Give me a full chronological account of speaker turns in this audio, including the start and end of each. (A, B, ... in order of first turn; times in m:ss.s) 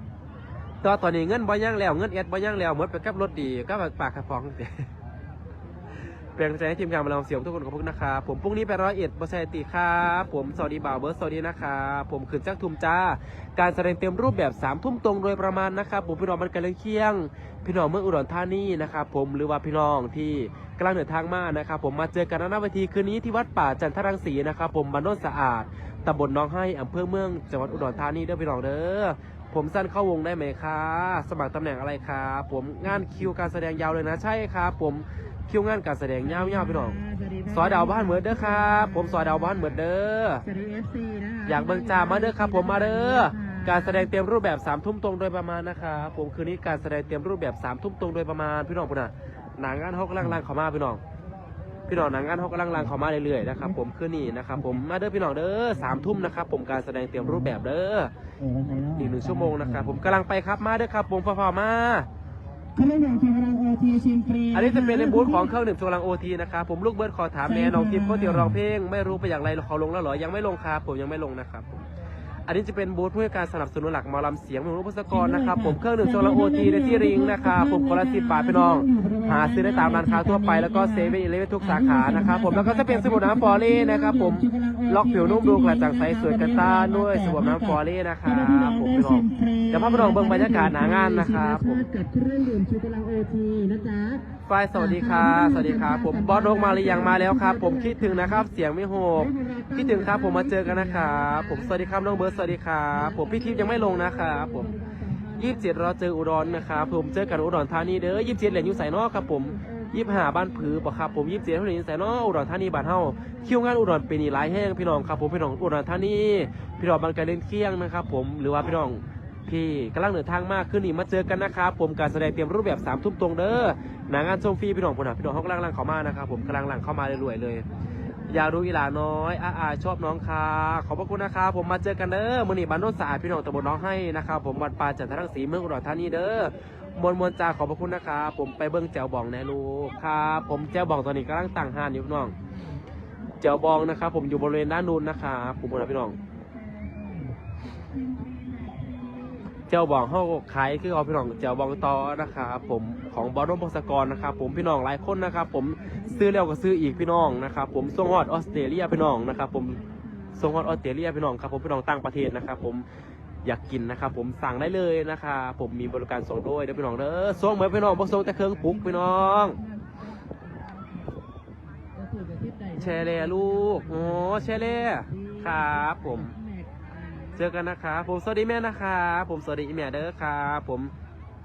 0:00.8-0:04.9 A
0:06.4-0:37.0 A
0:36.2-0:39.6 B
0:37.5-0:40.4 A
0:40.4-0:44.1 B
0:41.4-0:51.0 A
0:51.9-0:58.1 A
0:58.4-0:59.8 B
0:58.9-1:02.1 A
1:02.8-1:05.5 B
1:04.5-1:11.8 A
1:07.4-1:08.6 B
1:12.5-1:31.8 A
1:15.1-1:38.5 B
1:34.4-1:44.7 A
1:39.2-1:45.9 B
1:45.4-2:07.6 A
1:46.4-1:51.1 B
2:08.3-2:22.3 A
2:23.4-2:26.2 A
2:26.6-2:27.4 B
2:28.2-2:29.3 B
2:29.7-2:39.8 A
2:35.8-2:37.2 B
2:38.6-2:40.8 B
2:40.4-2:42.8 A
2:43.4-2:49.6 A
2:47.5-2:51.1 B
2:51.9-2:57.4 B
2:52.8-2:56.3 A
2:57.3-3:00.9 A